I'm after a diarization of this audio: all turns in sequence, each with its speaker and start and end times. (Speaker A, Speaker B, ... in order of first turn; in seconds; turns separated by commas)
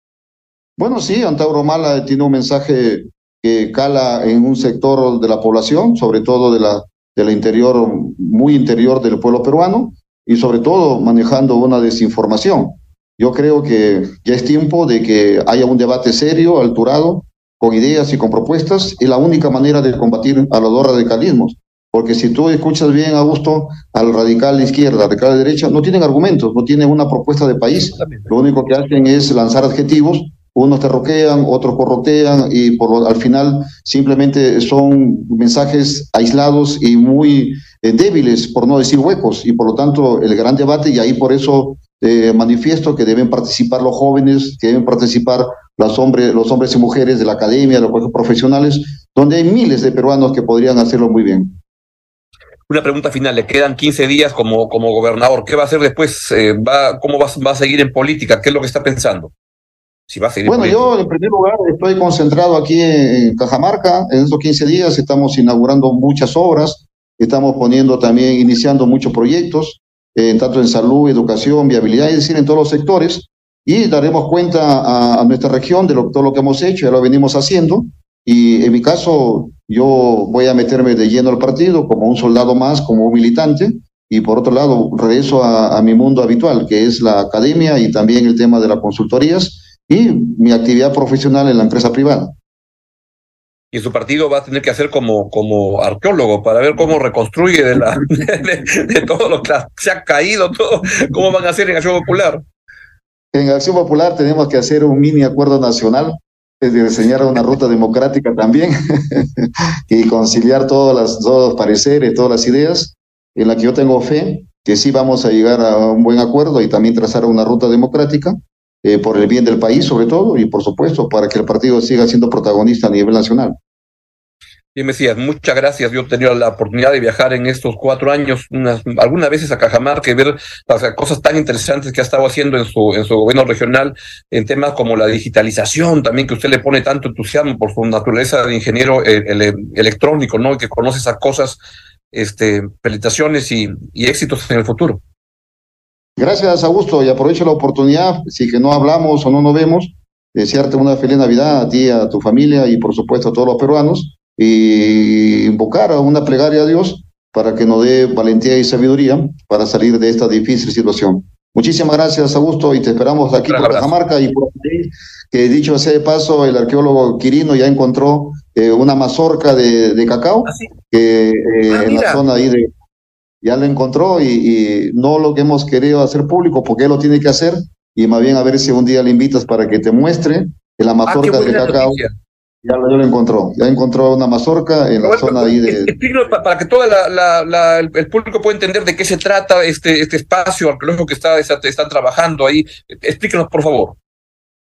Speaker A: 0.8-51.6, Speaker B: 28.0-28.3, Speaker B: 52.7-59.3, Speaker B: 60.1-60.9, Speaker A: 60.5-92.3, Speaker B: 93.7-102.5, Speaker A: 103.3-123.6, Speaker B: 124.8-141.6, Speaker B: 142.1-145.0, Speaker A: 146.2-172.7, Speaker B: 163.5-163.9, Speaker B: 171.7-172.2, Speaker A: 173.4-182.0, Speaker B: 181.1-182.1, Speaker A: 182.6-185.9, Speaker B: 185.0-194.0